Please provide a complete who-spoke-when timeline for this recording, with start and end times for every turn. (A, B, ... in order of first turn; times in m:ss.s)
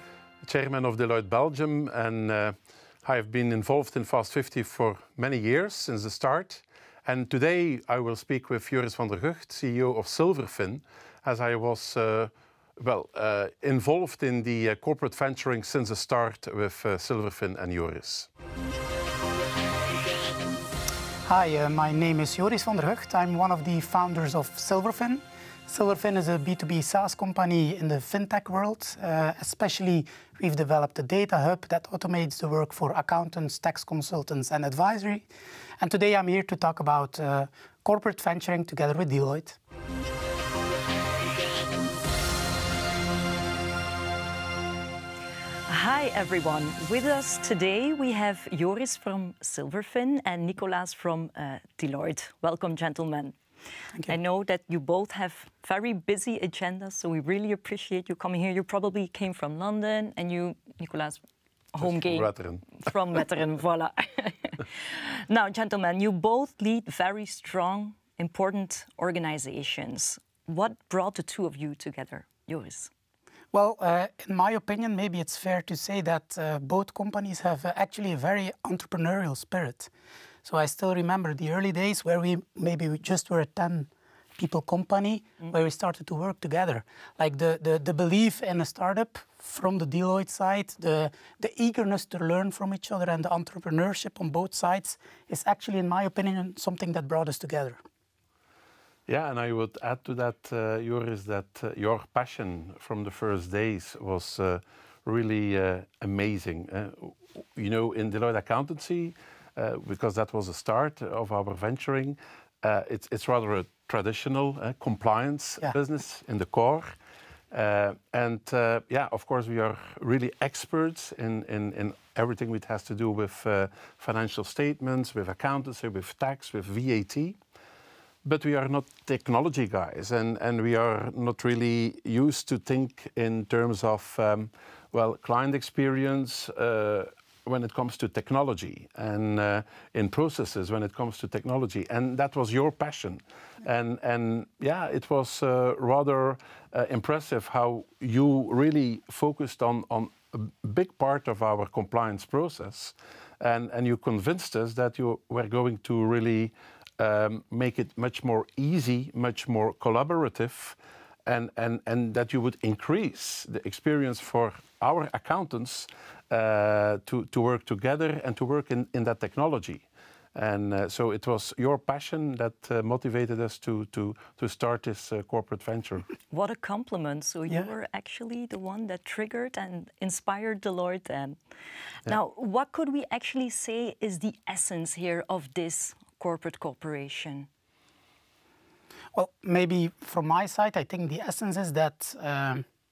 0:00.4-0:18.3 A
0:21.2-0:35.3 B
0:35.8-0:39.6 B
0:45.7-0:53.3 C
0:54.0-1:01.2 C
1:01.7-1:12.9 C
1:01.8-1:02.8 A
1:13.5-1:19.9 B
1:20.4-1:37.8 B
1:39.1-1:56.9 A
1:57.5-2:07.4 A
2:08.2-2:56.1 A
2:56.3-3:01.4 C
3:02.0-3:07.5 C
3:09.1-3:12.6 B